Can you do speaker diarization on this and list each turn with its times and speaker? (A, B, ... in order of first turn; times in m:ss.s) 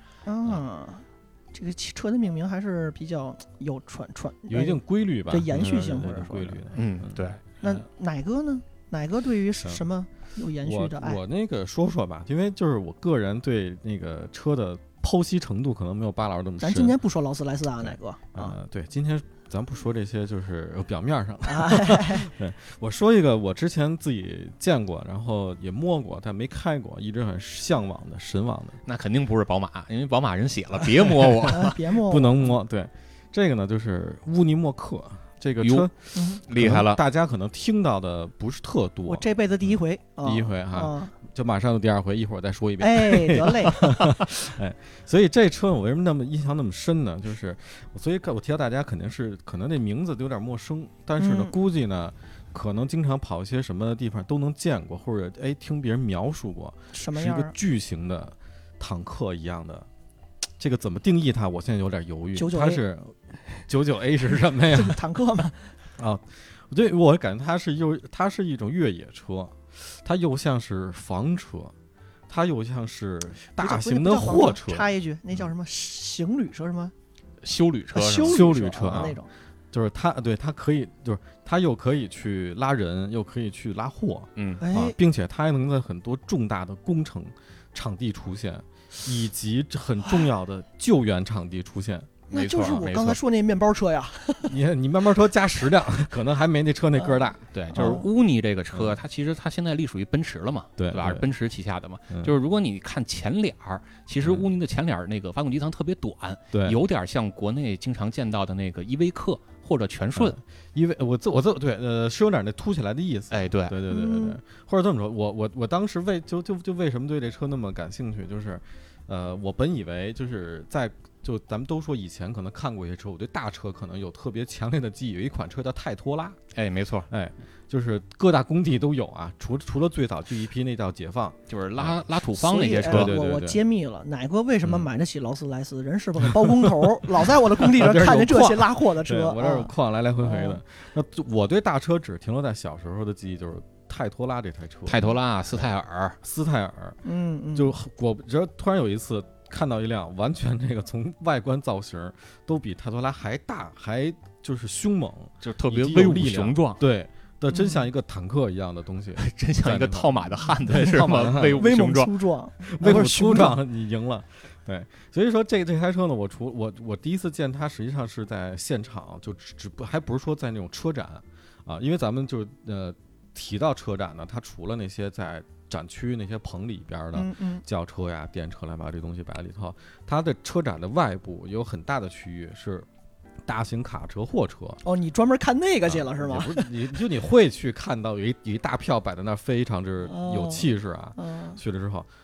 0:00.2-0:06.6 A
0:04.5-0:07.2 B
0:06.7-0:07.8 C
0:07.6-0:11.2 A
0:10.6-0:17.0 B
0:16.6-0:18.6 A
0:17.8-0:28.8 B
0:21.4-0:22.3 A
0:28.8-0:31.8 C
0:31.5-0:32.5 A
0:32.0-0:35.9 B
0:35.6-0:35.9 C
0:36.1-0:36.4 A
0:36.4-0:37.0 C
0:36.5-0:59.9 B
0:39.1-0:41.1 A
0:42.8-0:44.0 A
0:51.2-0:51.5 A
0:56.9-0:57.5 A
1:00.6-1:03.2 B
1:02.3-1:02.8 A
1:03.7-1:05.0 B
1:04.7-1:05.8 A
1:06.0-1:11.7 B
1:12.3-1:14.9 B
1:13.5-1:16.9 A
1:17.4-1:19.1 C
1:17.9-1:19.3 A
1:18.2-1:19.2 B
1:19.7-1:32.2 B
1:24.4-1:24.6 C
1:24.6-1:25.0 A
1:32.3-1:33.2 C
1:32.3-1:34.5 A
1:34.5-1:38.0 B
1:37.5-1:50.4 C
1:37.7-1:38.0 A
1:40.8-1:41.2 B
1:46.5-1:46.8 B
1:50.2-2:06.4 B
1:53.3-1:53.8 C
1:53.9-1:54.4 A
2:06.5-2:07.1 C
2:07.1-2:12.0 B
2:11.5-2:13.1 C
2:12.4-2:19.7 A
2:12.8-2:13.6 B
2:16.2-2:16.9 B
2:17.6-2:25.6 B
2:20.2-2:20.6 A
2:24.8-2:26.2 C
2:26.2-2:27.0 B
2:27.0-2:27.7 A
2:27.5-2:41.6 B
2:35.4-2:36.8 C
2:37.5-2:37.9 A
2:39.2-2:42.2 C
2:41.3-2:43.6 A
2:42.6-3:02.9 B
2:57.1-2:57.6 A
3:03.4-3:04.8 B
3:04.8-3:06.8 A
3:05.8-3:12.1 B
3:10.0-3:11.6 A